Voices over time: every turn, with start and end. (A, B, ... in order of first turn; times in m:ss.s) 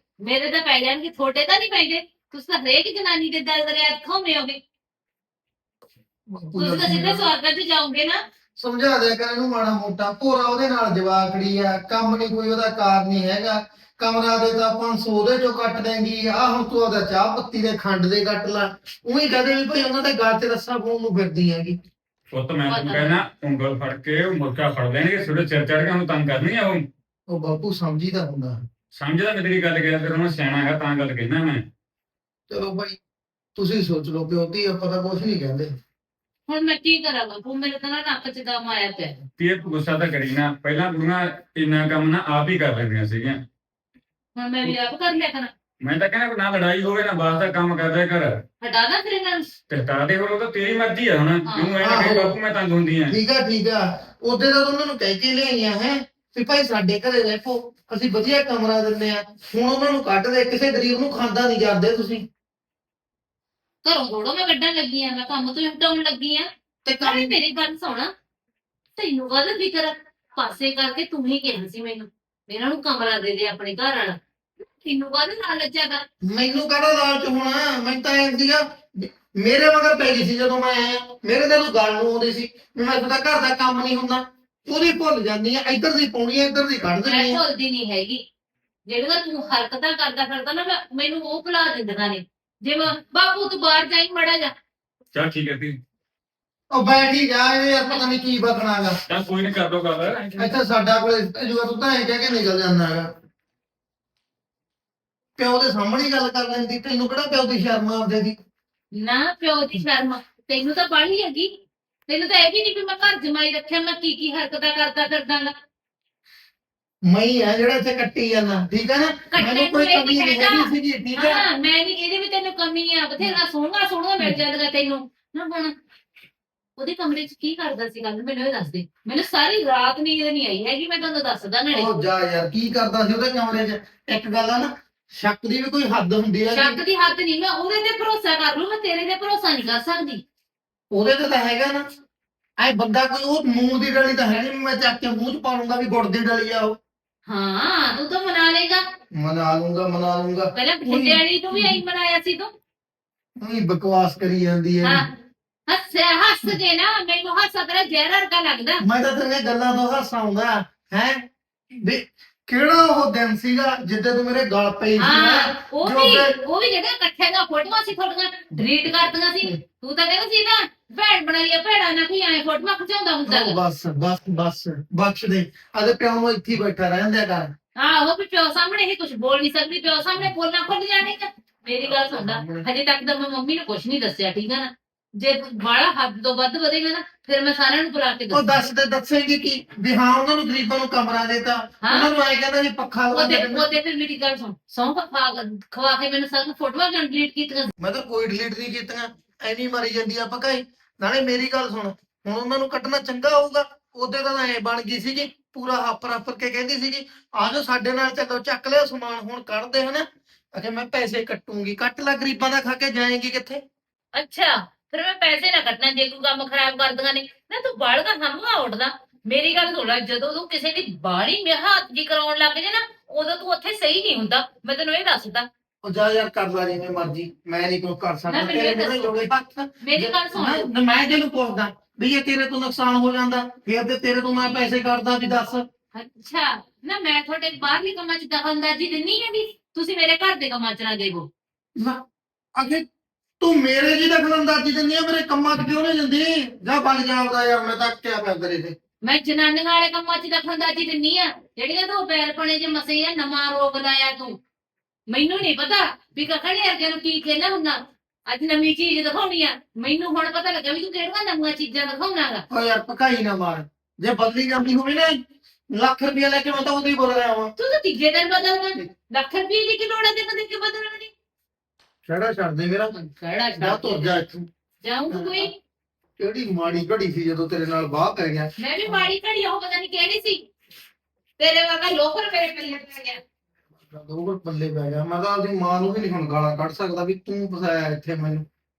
0:00.2-0:04.6 A
0:06.3-0:07.3 B
0:06.6-0:08.2 A
0:08.6-0:21.8 B
0:22.3-0:26.9 C
0:22.7-0:23.2 A
0:27.3-0:28.6 B
0:28.9-0:31.6 C
0:32.5-0:33.0 B
0:33.6-0:35.7 B
0:36.5-0:39.2 A
0:39.4-0:43.4 C
0:44.4-0:45.5 A
0:45.8-0:48.4 C
0:48.6-0:49.4 A
0:49.7-0:53.2 C
0:51.4-0:51.8 A
0:51.8-0:52.4 B
0:53.1-1:02.2 B
1:03.8-1:06.5 A
1:06.8-1:07.4 B
1:07.0-1:08.1 A
1:09.0-1:14.2 A
1:14.8-1:16.0 A
1:16.2-1:27.4 B
1:27.0-1:28.2 A
1:28.9-1:34.5 A
1:35.1-1:35.8 C
1:36.7-1:39.0 B
1:39.1-1:40.4 C
1:40.4-1:43.1 B
1:45.4-1:48.4 B
1:48.9-1:51.5 A
1:52.1-1:55.5 A
1:57.0-2:01.4 B
1:59.3-2:05.7 A
2:06.8-2:11.9 A
2:11.7-2:16.8 B
2:16.5-2:20.2 A
2:20.9-2:21.8 B
2:22.6-2:26.8 B
2:27.3-2:28.8 A
2:29.1-2:31.8 B
2:30.6-2:32.5 A
2:33.4-2:35.0 B
2:35.7-2:38.8 A
2:38.8-2:41.2 B
2:41.8-2:46.4 B
2:45.0-2:53.6 A
2:53.3-2:57.5 B
2:57.8-3:08.6 A
3:01.8-3:02.7 B
3:08.3-3:13.7 B
3:11.8-3:12.1 A
3:13.1-3:17.7 A
3:17.8-3:33.6 B
3:34.1-3:45.5 A
3:45.8-3:55.6 B
3:48.3-3:49.2 A
3:49.8-3:50.7 A
3:55.9-4:01.3 A
4:02.6-4:02.8 B
4:03.4-4:08.8 B
4:09.0-4:14.4 A
4:15.1-4:22.4 A
4:22.5-4:25.2 B
4:25.7-4:27.5 B
4:27.6-4:31.1 A
4:32.1-4:32.9 B
4:32.9-4:34.2 A
4:33.6-4:34.4 B
4:34.8-4:35.5 A
4:35.1-4:35.5 B
4:36.2-4:39.1 B
4:38.6-4:40.4 A
4:41.4-4:43.2 A
4:43.9-4:48.4 B